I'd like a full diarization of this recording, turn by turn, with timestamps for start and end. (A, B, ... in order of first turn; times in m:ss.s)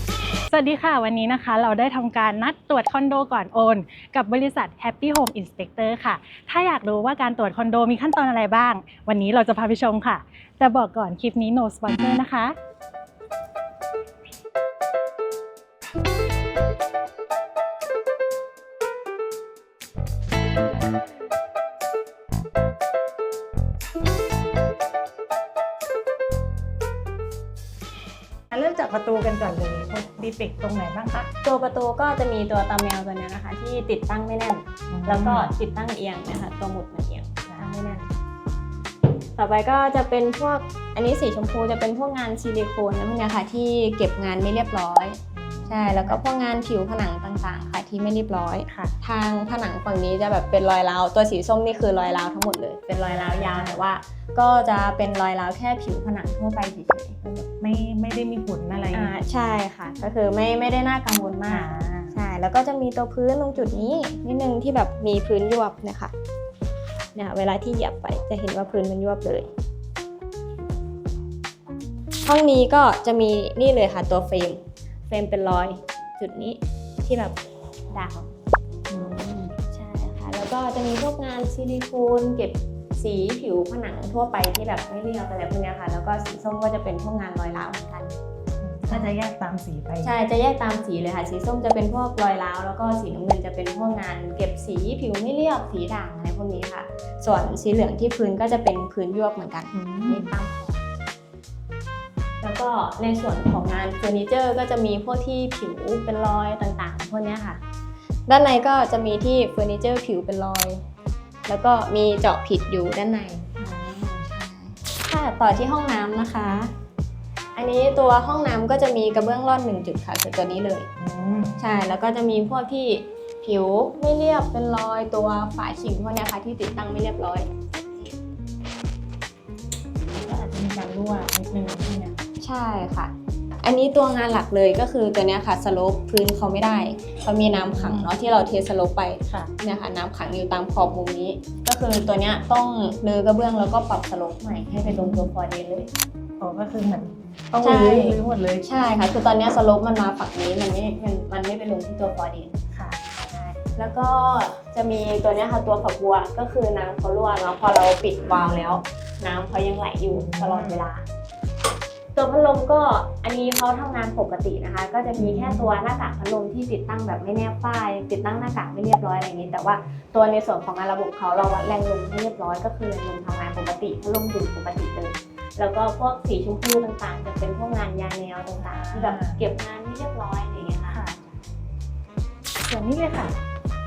0:00.5-0:12.6 A
0:28.5-0:31.3 A
0:31.4-0:38.1 B
0:34.9-0:35.5 A
0:37.5-0:37.8 A
0:39.4-0:57.2 B
0:45.4-0:46.2 A
0:48.7-0:49.0 A
0:53.1-0:53.8 A
0:57.2-0:59.1 A
0:58.9-1:06.1 B
1:01.5-1:02.2 A
1:07.2-1:09.5 B
1:12.2-1:17.4 B
1:17.9-1:18.3 B
1:18.9-1:28.2 B
1:28.6-1:30.1 A
1:30.0-1:40.8 B
1:39.7-1:40.3 A
1:42.4-1:47.6 B
1:48.3-1:50.8 B
1:51.5-1:56.7 B
1:57.6-2:00.9 B
2:01.0-2:01.6 A
2:01.6-2:08.2 B
2:10.1-2:12.2 A
2:12.4-2:25.9 B
2:17.8-2:18.1 A
2:24.7-2:25.3 A
2:26.4-2:28.7 A
2:27.6-2:32.6 B
2:32.7-2:33.0 A
2:33.2-2:41.0 B
2:40.1-2:40.8 A
2:42.2-3:01.0 B
2:45.2-2:45.7 A
2:58.6-2:59.4 A
3:00.9-3:01.2 A
3:02.6-3:03.4 A